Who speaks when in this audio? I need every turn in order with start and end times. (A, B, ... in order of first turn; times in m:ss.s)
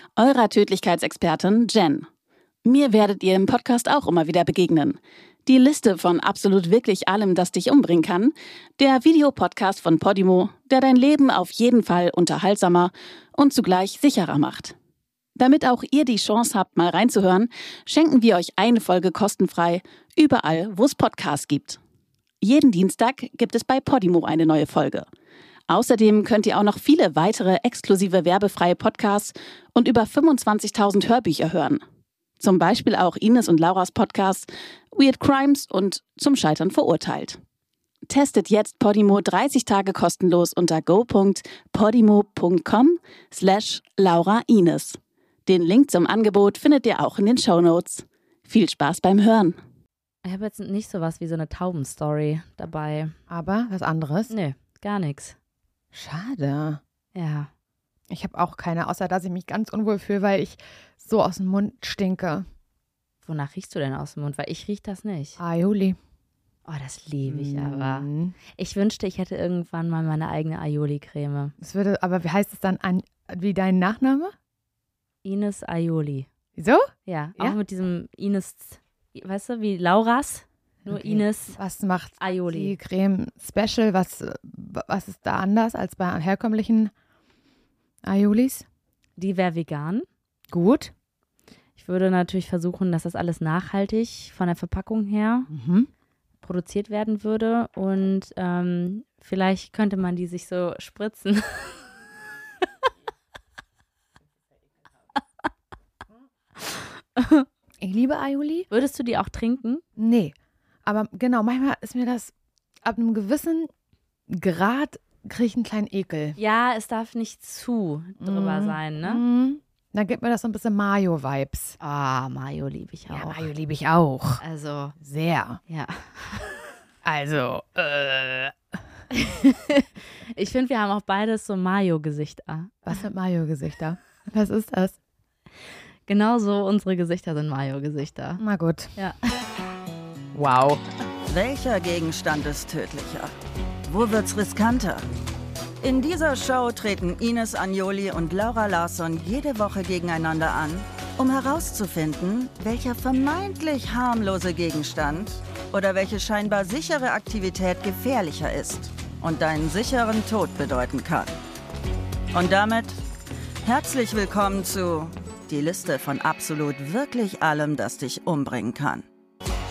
0:00.2-0:02.1 A
0:02.6-0:14.7 A
0:15.4-0:21.8 A
0:22.4-0:25.0 A
0:25.7-0:31.8 A
0:32.4-0:37.4 A
0:38.1-0:49.6 A
0:50.2-0:53.1 B
0:53.3-0:54.3 C
0:54.3-0:55.4 B
0:55.9-0:56.8 C
0:57.1-0:57.5 B
0:58.1-1:02.4 C
1:03.2-1:05.4 B
1:05.4-1:06.0 C
1:06.6-1:11.5 B
1:07.2-1:08.3 C
1:11.6-1:14.3 C
1:15.2-1:16.3 B
1:16.6-1:17.6 C
1:17.0-1:21.6 B
1:20.8-1:26.9 C
1:22.2-1:22.7 B
1:28.0-1:28.6 C
1:29.2-1:30.0 B
1:30.5-1:30.9 C
1:31.8-1:35.5 B
1:35.5-1:35.9 C
1:36.4-1:41.7 B
1:46.6-1:47.5 B
1:47.8-1:48.7 C
1:48.7-1:49.8 B
1:50.0-1:50.3 C
1:50.8-1:52.3 C
1:52.8-1:53.7 C
1:54.3-1:56.4 C
1:56.4-1:59.2 B
1:58.2-2:01.7 C
2:01.8-2:03.4 B
2:03.1-2:04.4 C
2:04.4-2:04.9 B
2:05.0-2:05.6 C
2:05.7-2:06.5 B
2:07.0-2:08.5 C
2:09.1-2:12.8 B
2:12.8-2:15.0 C
2:16.1-2:18.4 B
2:18.4-2:18.9 C
2:20.3-2:20.8 C
2:21.2-2:23.3 D
2:23.8-2:25.0 D
2:25.8-2:41.4 D
2:42.3-2:43.0 D
2:43.6-2:49.0 D